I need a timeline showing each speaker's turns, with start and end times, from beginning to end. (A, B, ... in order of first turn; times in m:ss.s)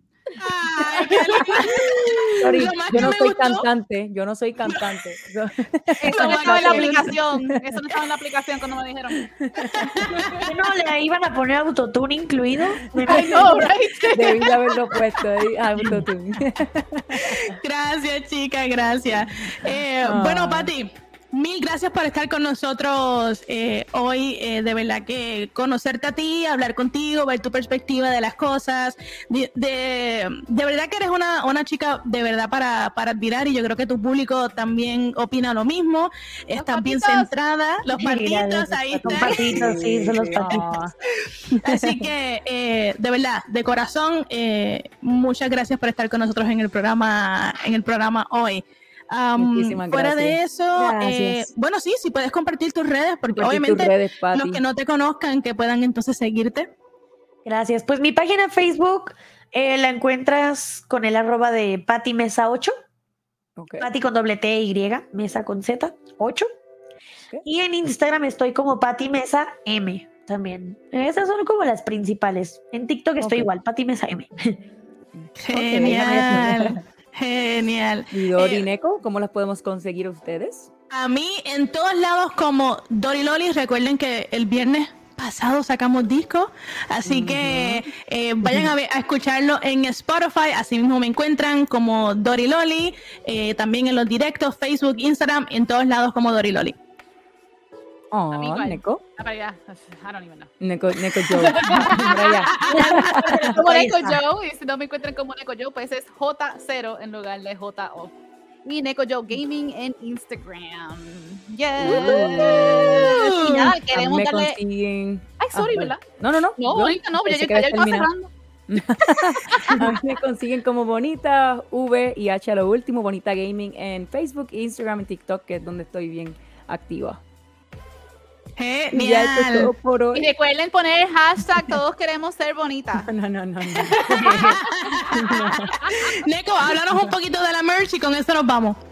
0:00.4-0:03.7 A
0:01.5-0:03.0 B
0:02.4-0:07.8 C
0:04.7-0:04.9 A
0:06.0-0:10.5 D
0:06.1-0:07.5 A
0:09.2-0:10.2 C
0:09.6-0:10.4 A
0:10.4-0:13.7 B
0:13.0-0:17.5 C
0:13.0-0:15.0 D
0:17.3-0:39.8 A
0:20.0-0:20.7 C
0:36.5-0:37.3 D
0:38.0-0:40.7 B
0:39.0-0:41.0 C
0:41.5-0:42.1 C
0:41.6-0:56.7 A
0:49.4-0:50.4 C
0:50.8-0:51.5 B
0:53.3-0:54.6 C
0:57.4-1:02.7 B
1:03.6-1:03.9 C
1:03.8-1:06.5 B
1:07.4-1:14.5 B
1:13.2-1:13.5 C
1:15.2-1:16.8 C
1:15.4-1:18.6 A
1:15.8-1:16.5 B
1:18.1-1:20.7 C
1:20.9-1:36.8 A
1:27.0-1:27.8 C
1:28.4-1:28.7 C
1:38.1-1:39.0 C
1:38.3-1:48.1 D
1:40.6-1:43.5 C
1:42.6-1:44.2 B
1:48.6-1:54.6 D
1:51.8-1:53.1 C
1:51.8-1:53.8 A
1:53.9-1:58.1 C
1:55.4-1:56.0 D
1:56.6-1:59.9 D
1:58.7-2:07.2 C
2:08.6-2:09.7 A
2:08.9-2:10.3 C
2:10.1-2:13.1 D
2:13.0-2:16.0 C
2:13.8-2:14.8 D
2:14.2-2:18.8 A
2:15.4-2:16.2 D
2:16.9-2:17.1 C